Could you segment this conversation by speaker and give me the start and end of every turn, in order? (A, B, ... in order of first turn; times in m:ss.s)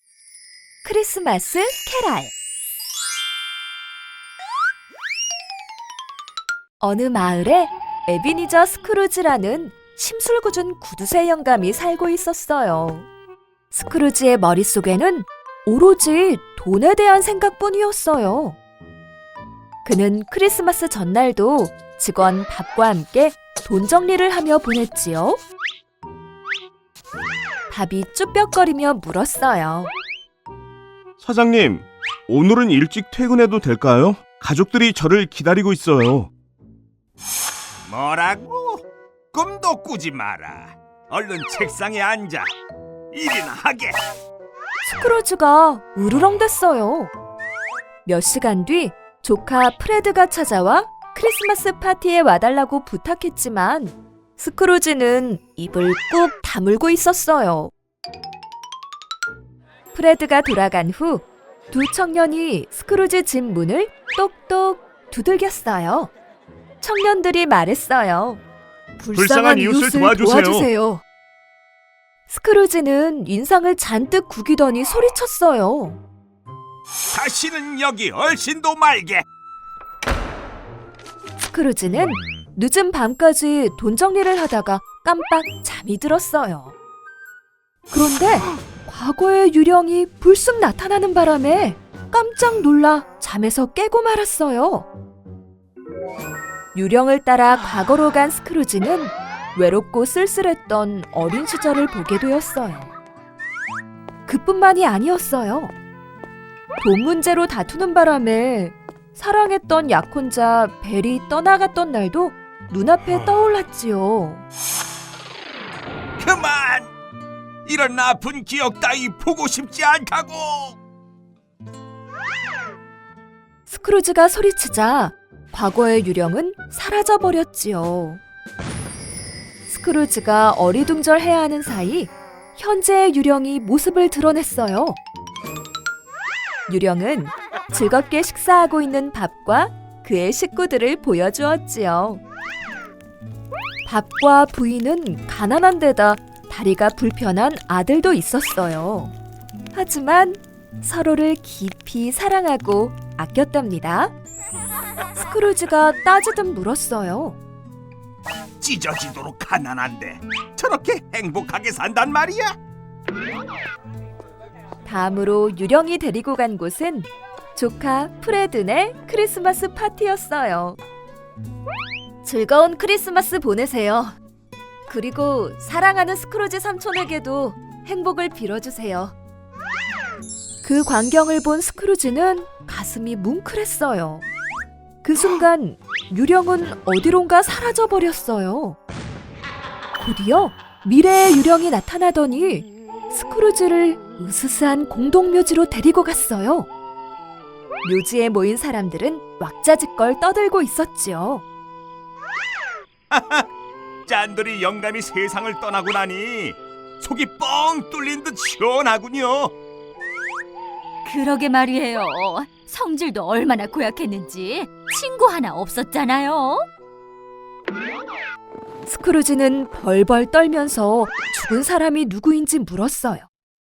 0:00.8-0:02.3 A
0:06.8-0:13.1 A
0:13.7-0:18.6 A
0:19.8-0:25.4 A
0:27.7-0:29.9 A
0:31.2-0:31.6 B
0:32.3-0:36.3 B
0:35.1-0:35.3 C
0:37.9-0:42.5 C
0:43.1-0:44.0 C
0:44.9-0:47.1 A
0:48.0-0:57.7 A
0:59.9-1:06.1 A
1:06.8-1:08.4 A
1:09.0-1:11.0 A
1:09.1-1:10.7 C
1:12.3-1:16.0 A
1:17.1-1:19.2 C
1:21.4-1:26.7 A
1:27.9-1:34.9 A
1:36.7-1:42.9 A
1:44.3-1:45.7 A
1:46.8-1:54.4 A
1:56.2-1:56.9 C
1:57.7-2:00.8 C
2:03.7-2:08.2 A
2:09.7-2:15.0 A
2:16.7-2:22.2 A
2:23.9-2:29.1 A
2:29.7-2:34.1 A
2:35.2-2:37.4 A
2:38.6-2:42.6 C
2:44.8-2:50.8 A
2:52.2-2:54.2 A
2:54.9-2:59.1 A
3:00.6-3:04.2 A
3:05.0-3:08.8 A
3:10.0-3:16.7 A
3:17.8-3:21.4 A
3:23.1-3:23.4 C
3:24.1-3:29.5 C
3:31.0-3:36.7 D
3:38.9-3:43.3 A